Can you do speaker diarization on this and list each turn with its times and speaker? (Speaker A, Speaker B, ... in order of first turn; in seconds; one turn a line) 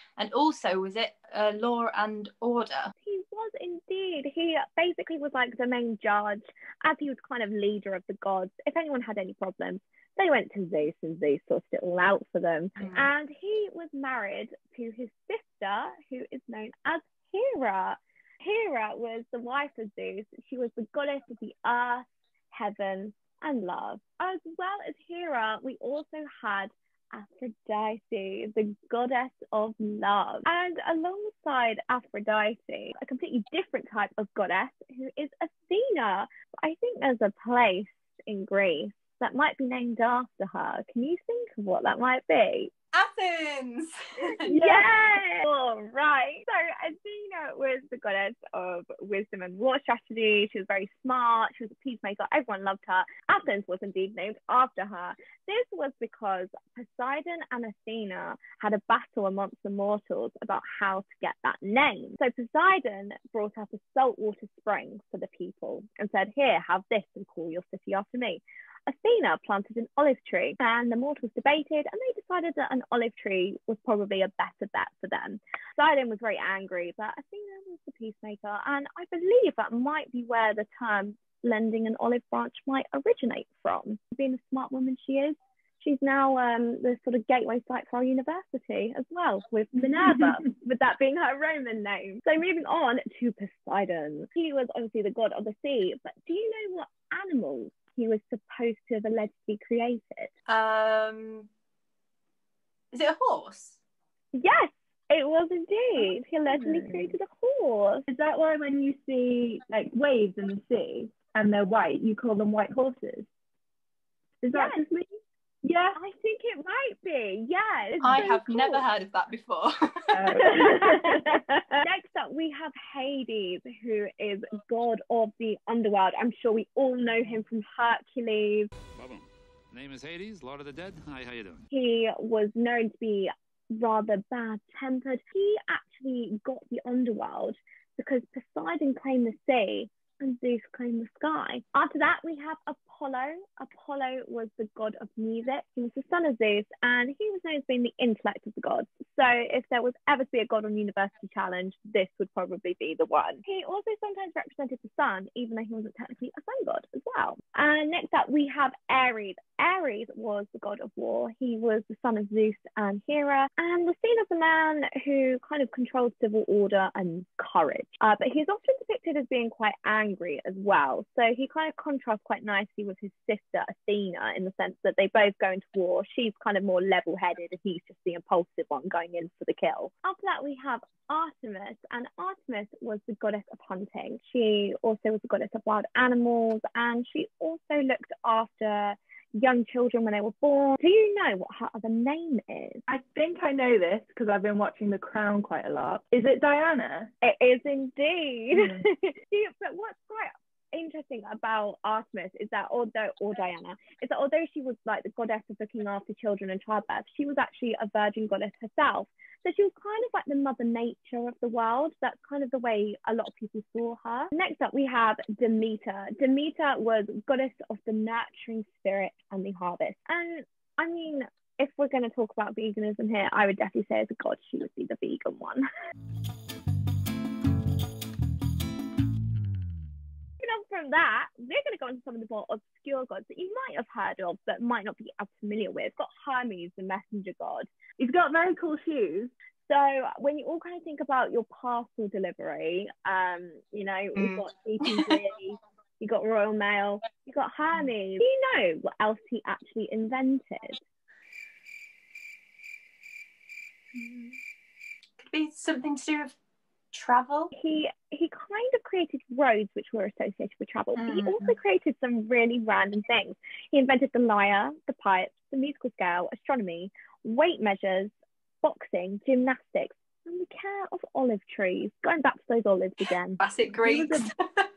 Speaker A: 0.2-2.9
Speaker B: 3.0-42.7
Speaker A: 12.8-13.1
Speaker A: 42.9-44.5
Speaker B: 44.5-100.3
Speaker C: 44.5-44.8
Speaker A: 100.5-101.5
Speaker A: 102.9-103.8
Speaker B: 104.3-108.0
Speaker C: 106.0-107.1
Speaker C: 108.1-113.3
Speaker C: 114.4-116.0
Speaker B: 114.5-114.8
Speaker B: 115.9-118.8
Speaker A: 118.0-120.2
Speaker C: 120.1-121.8
Speaker B: 120.3-128.7
Speaker D: 128.9-131.6
Speaker B: 131.7-192.8
Speaker C: 192.9-197.1
Speaker B: 197.2-225.6
Speaker C: 198.5-198.8
Speaker B: 230.4-237.7
Speaker C: 238.0-239.3
Speaker B: 239.7-250.8
Speaker A: 244.2-245.2
Speaker A: 253.9-254.4
Speaker A: 255.2-256.4
Speaker A: 256.9-257.5
Speaker B: 257.5-273.4
Speaker A: 260.9-261.5
Speaker A: 273.4-274.6
Speaker C: 273.8-274.3